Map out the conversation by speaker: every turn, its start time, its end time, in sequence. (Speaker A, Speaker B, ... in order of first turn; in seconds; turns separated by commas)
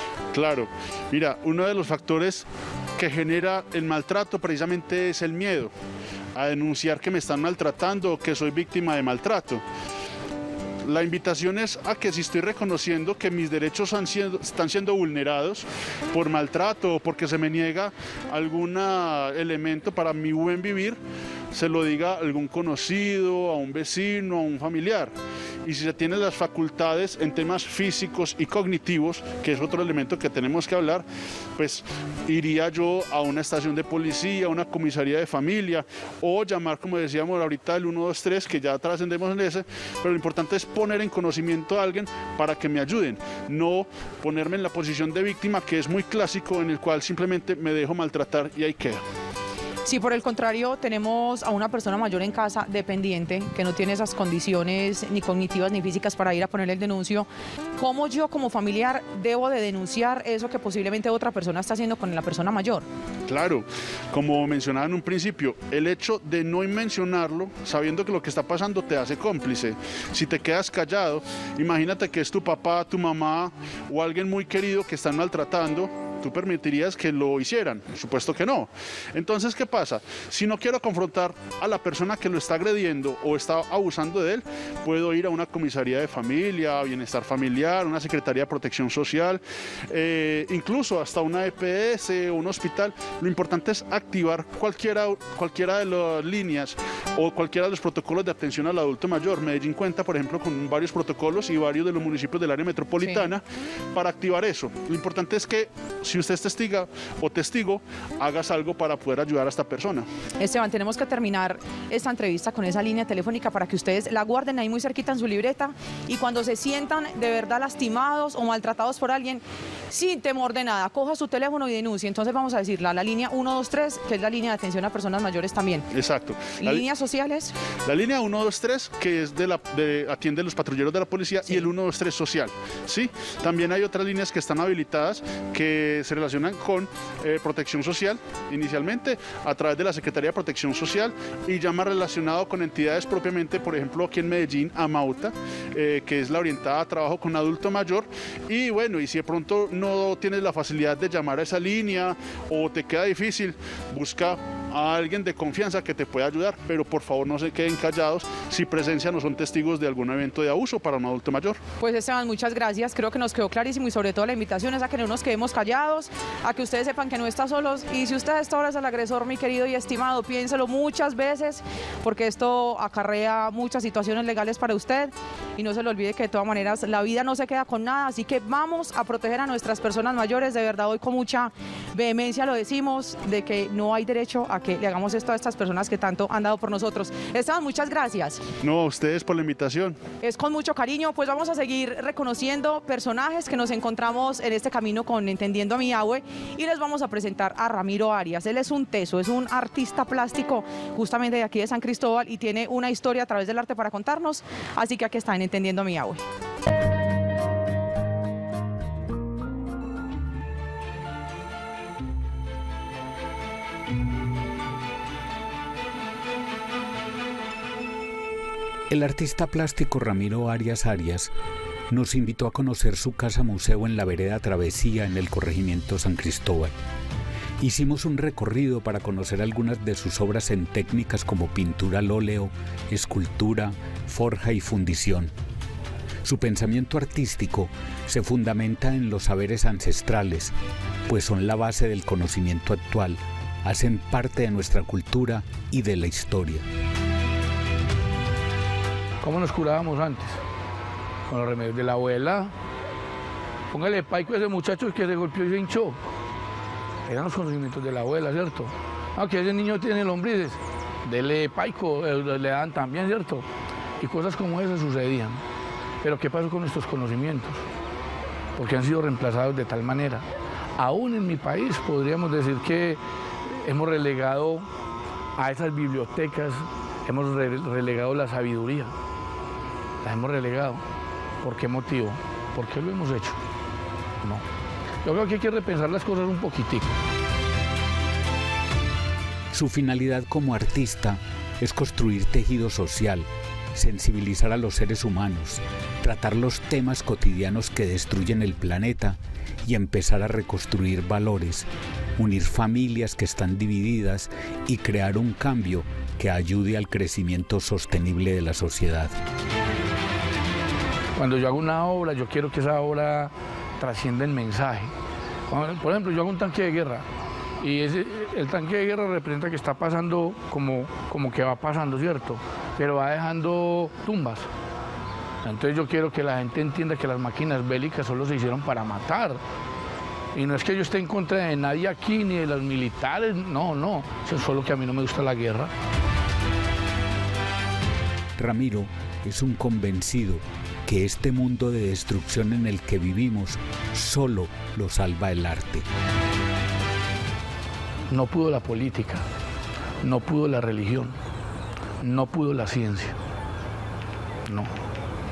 Speaker A: 0.3-5.7, Speaker A: 6.3-9.6, Speaker A: 10.8-21.0, Speaker A: 21.5-31.0, Speaker A: 31.6-49.0, Speaker B: 49.8-62.9, Speaker A: 63.3-103.4, Speaker B: 103.0-103.3, Speaker A: 103.9-110.0, Speaker B: 110.4-125.9, Speaker A: 125.9-126.8, Speaker B: 126.6-127.5, Speaker A: 127.8-161.6, Speaker B: 161.8-188.4, Speaker A: 188.6-190.0, Speaker B: 190.2-206.2, Speaker C: 218.9-221.3, Speaker C: 221.9-226.7, Speaker C: 227.6-235.3, Speaker C: 236.2-240.5, Speaker C: 241.1-246.7, Speaker D: 249.2-250.4, Speaker D: 251.3-252.5, Speaker D: 253.7-256.0, Speaker D: 257.1-263.4, Speaker D: 264.0-265.4, Speaker D: 266.0-267.6, Speaker D: 268.6-270.2, Speaker D: 270.8-274.7, Speaker D: 275.4-278.9, Speaker D: 280.0-280.8, Speaker D: 281.4-283.4, Speaker D: 285.0-286.9, Speaker C: 289.5-309.1, Speaker D: 311.1-314.9, Speaker D: 315.5-317.0, Speaker D: 317.6-324.5, Speaker D: 325.4-329.4, Speaker D: 330.3-335.7, Speaker C: 338.4-345.9, Speaker D: 348.1-349.2, Speaker D: 350.0-351.1, Speaker D: 352.0-353.1, Speaker D: 354.4-354.7